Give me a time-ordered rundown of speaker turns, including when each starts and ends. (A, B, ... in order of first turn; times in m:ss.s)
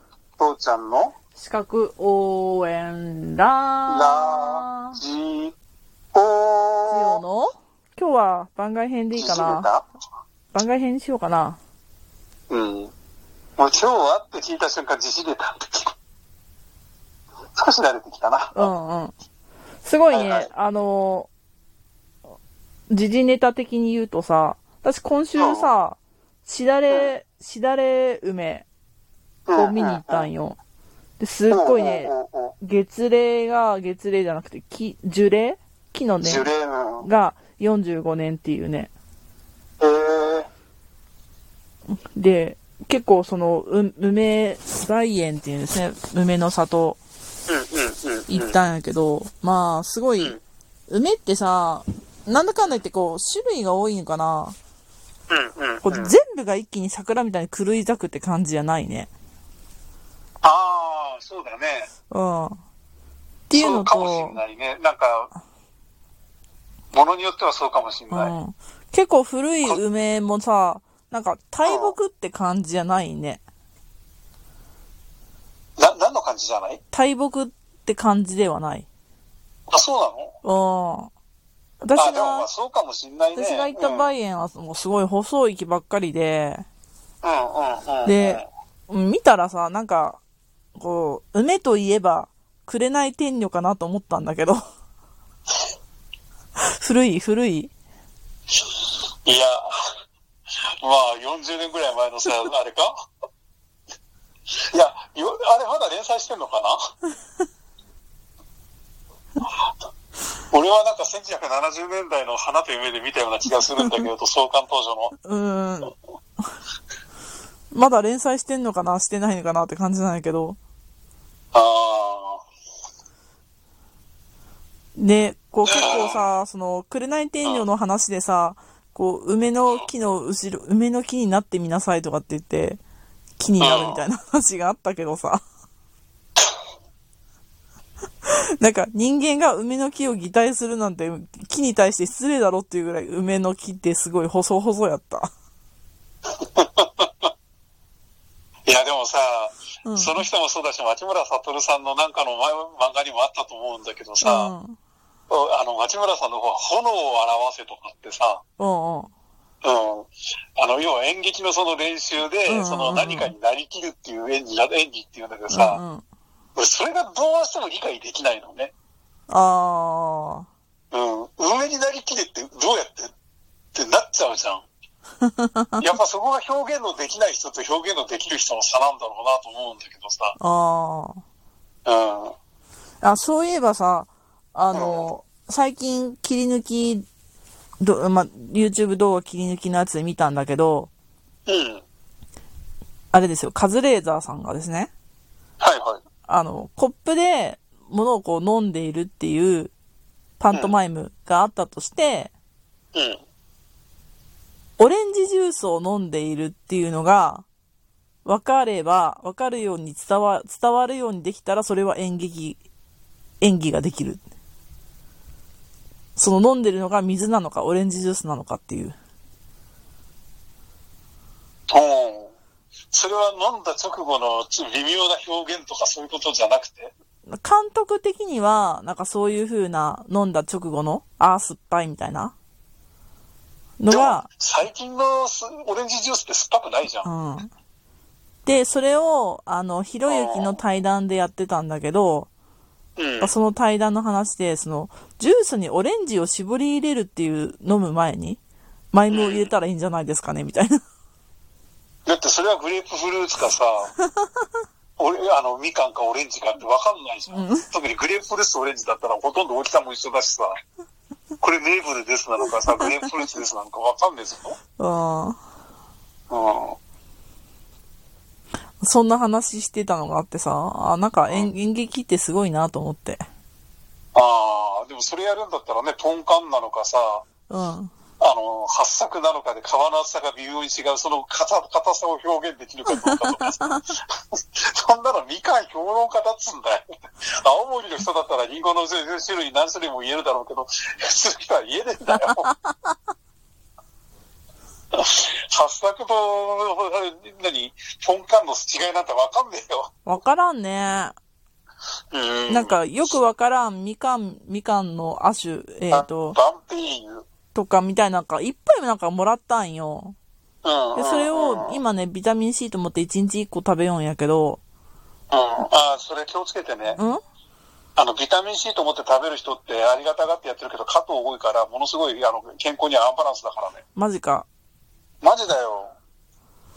0:00.4-0:01.1 A
0:01.4-0:05.0 B
0:03.9-0:05.5 A
0:06.1-0:07.2 A
0:06.9-0:09.7 B
0:09.2-0:09.8 A
0:10.5-0:11.6 B
0:12.5-0:12.9 A
0:13.6-0:15.9 A
0:17.6-0:18.7 A
0:18.5-0:19.1 B
0:19.8-0:21.3 B
0:20.1-0:20.5 A
0:22.9-0:28.7 B
0:25.4-0:25.7 A
0:29.5-0:30.3 A
0:29.6-0:30.6 B
0:31.2-0:36.5 B
0:31.5-0:32.5 A
0:36.2-0:37.1 A
0:37.0-0:38.9 B
0:39.8-0:40.5 A
0:42.1-0:47.0 B
0:47.5-0:48.6 A
0:48.3-0:50.4 B
0:50.9-0:54.6 B
0:55.3-0:56.1 A
0:55.8-0:59.1 B
1:00.4-1:01.9 A
1:02.1-1:02.6 B
1:03.5-1:04.4 B
1:03.5-1:05.3 A
1:06.9-1:08.3 A
1:08.1-1:13.4 B
1:11.6-1:11.9 A
1:15.8-1:16.8 A
1:16.9-1:18.9 B
1:19.7-1:20.3 A
1:20.4-1:21.1 B
1:21.8-1:22.5 B
1:22.0-1:24.1 A
1:23.3-1:26.7 B
1:27.2-1:28.4 A
1:28.0-1:30.2 B
1:30.8-1:34.6 B
1:36.6-1:37.7 B
1:39.2-1:39.7 A
1:40.8-1:42.9 A
1:44.7-1:46.8 A
1:50.5-1:55.1 A
1:55.2-1:55.9 B
1:57.7-2:00.6 B
2:01.5-2:02.4 A
2:05.0-2:12.8 B
2:05.7-2:06.2 A
2:13.4-2:15.4 B
2:13.6-2:14.0 A
2:18.3-2:25.3 B
2:26.4-2:27.3 A
2:28.7-2:34.5 A
2:29.8-2:30.2 B
2:34.2-2:34.8 B
2:35.3-2:38.4 A
2:38.6-2:39.1 B
2:39.6-2:45.8 A
2:42.5-2:43.3 B
2:45.5-2:46.0 B
2:46.6-2:48.7 A
2:49.3-2:50.5 B
2:50.9-2:53.1 A
2:53.7-2:54.6 A
2:55.2-2:55.8 B
2:55.8-3:00.4 A
3:00.4-3:01.2 B
3:01.9-3:02.3 A
3:03.0-3:07.1 B
3:04.7-3:05.1 A
3:07.8-3:10.9 B
3:11.5-3:11.8 A
3:13.1-3:14.9 B
3:15.6-3:16.0 A
3:16.3-3:19.7 B
3:20.4-3:22.3 B
3:22.9-3:23.2 A
3:24.8-3:27.4 B
3:28.2-3:32.6 B
3:33.4-3:34.2 B
3:36.2-3:39.0 B
3:41.7-3:42.3 A
3:42.9-3:46.9 A
3:47.3-3:52.3 B
3:53.8-3:54.3 B
3:53.9-3:57.1 A
3:57.0-3:57.5 B
3:58.5-4:02.3 B
4:00.1-4:00.6 A
4:03.0-4:03.3 A
4:03.2-4:08.4 B
4:08.9-4:10.8 B
4:09.1-4:09.5 A
4:12.1-4:13.9 A
4:15.0-4:20.5 A
4:17.3-4:17.7 B
4:21.4-4:24.6 A
4:22.7-4:23.1 B
4:24.8-4:25.4 B
4:26.3-4:26.8 A
4:28.8-4:33.2 B
4:34.1-4:37.2 A
4:37.5-4:37.9 B
4:38.2-4:52.5 A
4:43.0-4:43.8 B
4:52.2-4:52.9 B
4:54.9-4:59.9 A
5:00.1-5:01.1 B
5:02.1-5:02.8 A
5:02.5-5:06.4 B
5:05.9-5:07.2 A
5:07.5-5:10.1 B
5:10.6-5:11.8 A
5:10.9-5:14.6 B
5:15.3-5:17.0 A
5:18.0-5:23.8 A
5:24.0-5:24.5 B
5:25.2-5:26.0 A